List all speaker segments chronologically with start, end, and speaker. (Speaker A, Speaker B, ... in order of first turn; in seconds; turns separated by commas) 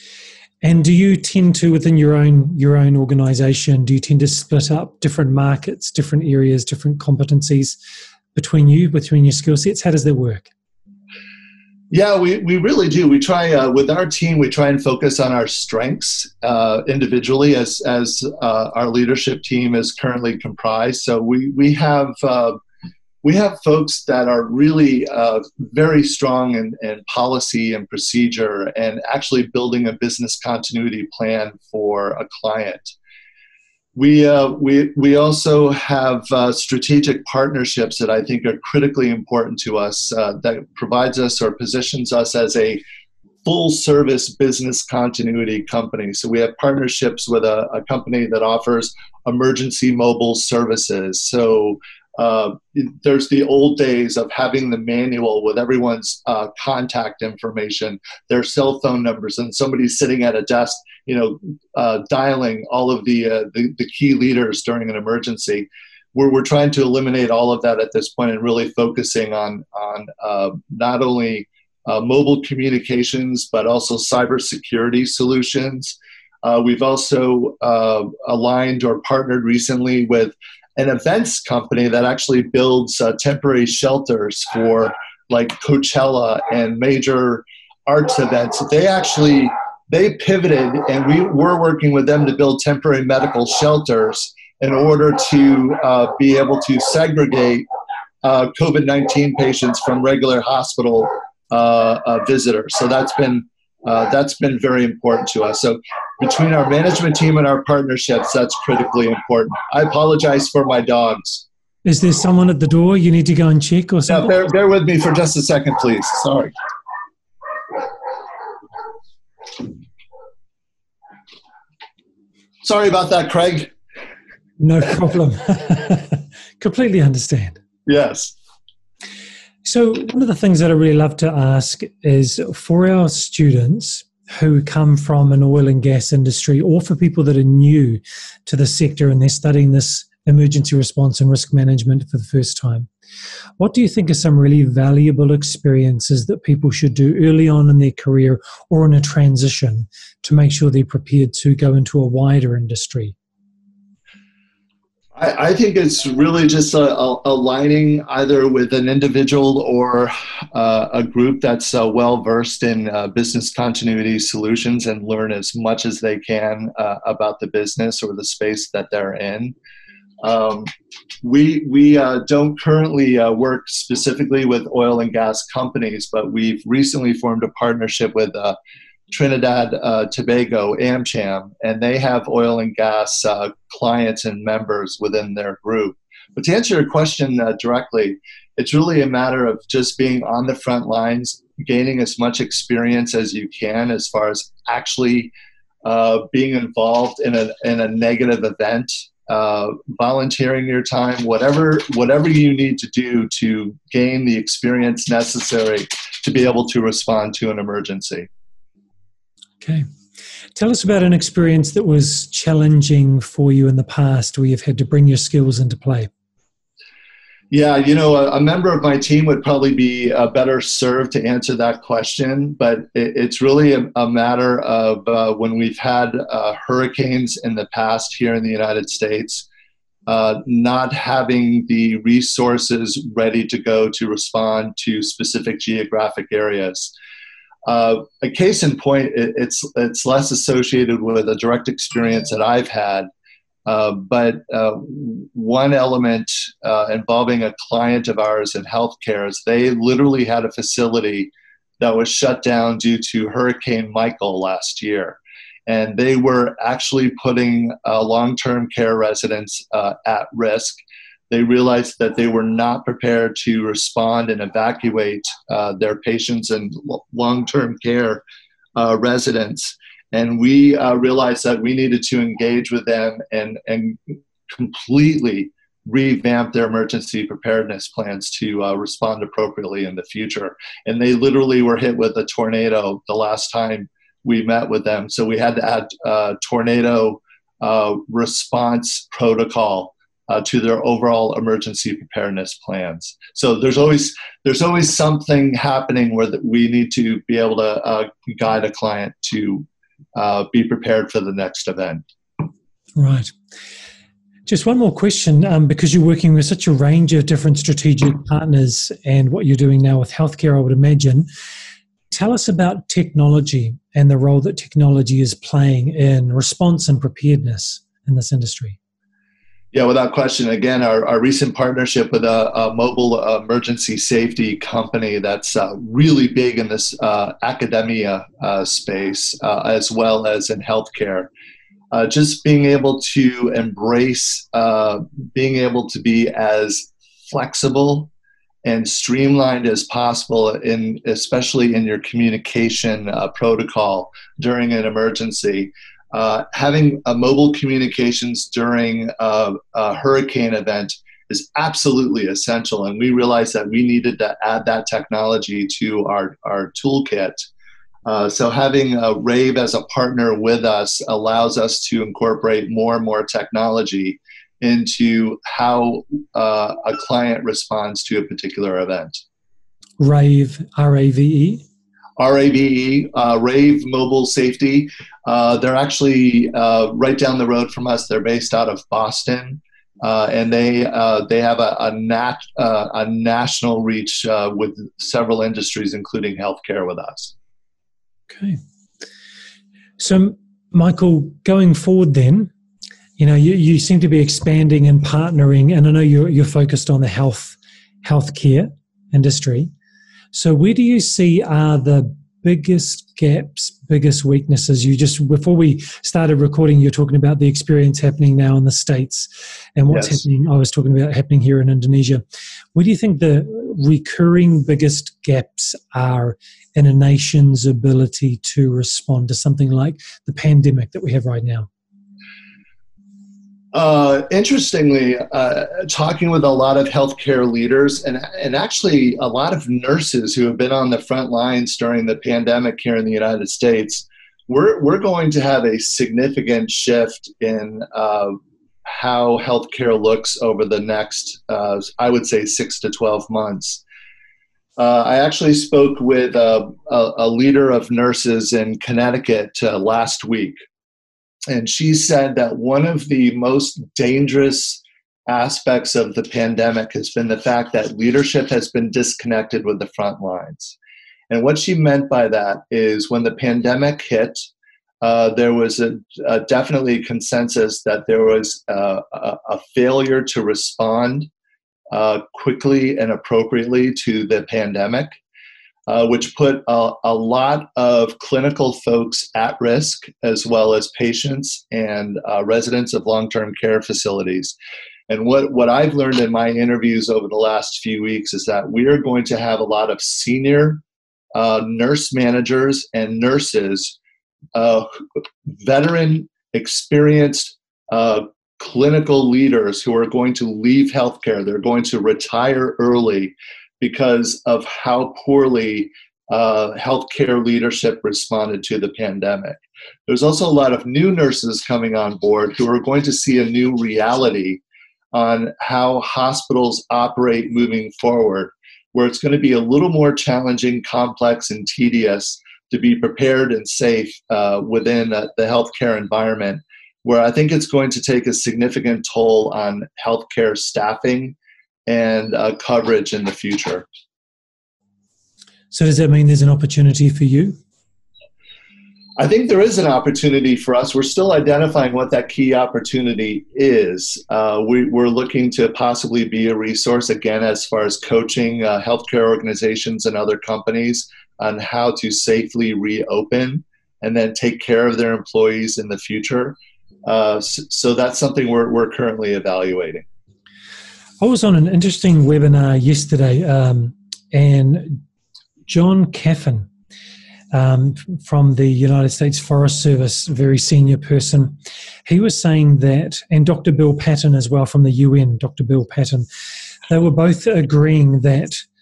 Speaker A: 0.6-7.8, Speaker A: 8.3-10.5, Speaker B: 11.9-22.6, Speaker B: 23.2-32.9, Speaker B: 34.0-42.8, Speaker B: 43.4-97.6, Speaker B: 98.2-111.4, Speaker A: 111.8-114.5, Speaker B: 114.1-116.5, Speaker B: 122.6-123.7, Speaker A: 124.6-127.6, Speaker B: 127.8-128.3, Speaker A: 129.6-142.9, Speaker A: 143.6-153.1, Speaker B: 155.2-169.5, Speaker B: 170.2-170.7, Speaker B: 171.2-178.6, Speaker B: 179.1-195.3, Speaker B: 195.8-208.3, Speaker A: 210.5-216.1, Speaker B: 217.5-229.5, Speaker B: 230.1-236.9, Speaker B: 237.7-243.1, Speaker B: 243.7-268.2, Speaker B: 268.8-302.0, Speaker A: 302.9-303.3, Speaker A: 304.4-311.3, Speaker A: 312.1-318.8, Speaker B: 319.7-331.3, Speaker B: 331.9-338.1, Speaker B: 338.6-357.4, Speaker B: 358.1-369.2, Speaker A: 370.0-371.6, Speaker B: 372.2-387.3, Speaker A: 388.3-388.6, Speaker A: 390.0-392.5, Speaker A: 393.2-399.7, Speaker A: 400.3-412.2, Speaker B: 409.9-410.2, Speaker A: 412.7-421.7, Speaker B: 423.7-443.8, Speaker B: 444.8-450.6, Speaker B: 451.5-460.8, Speaker B: 461.3-464.5, Speaker B: 465.0-471.3, Speaker B: 471.9-475.1, Speaker B: 475.9-484.6, Speaker B: 485.1-490.8, Speaker B: 491.3-494.0, Speaker B: 494.5-494.9, Speaker B: 495.5-514.6, Speaker B: 515.1-531.4, Speaker B: 531.9-533.9, Speaker A: 535.7-537.6, Speaker B: 539.2-560.0, Speaker A: 561.2-565.0, Speaker A: 565.7-566.7, Speaker A: 567.5-576.3, Speaker A: 576.9-578.6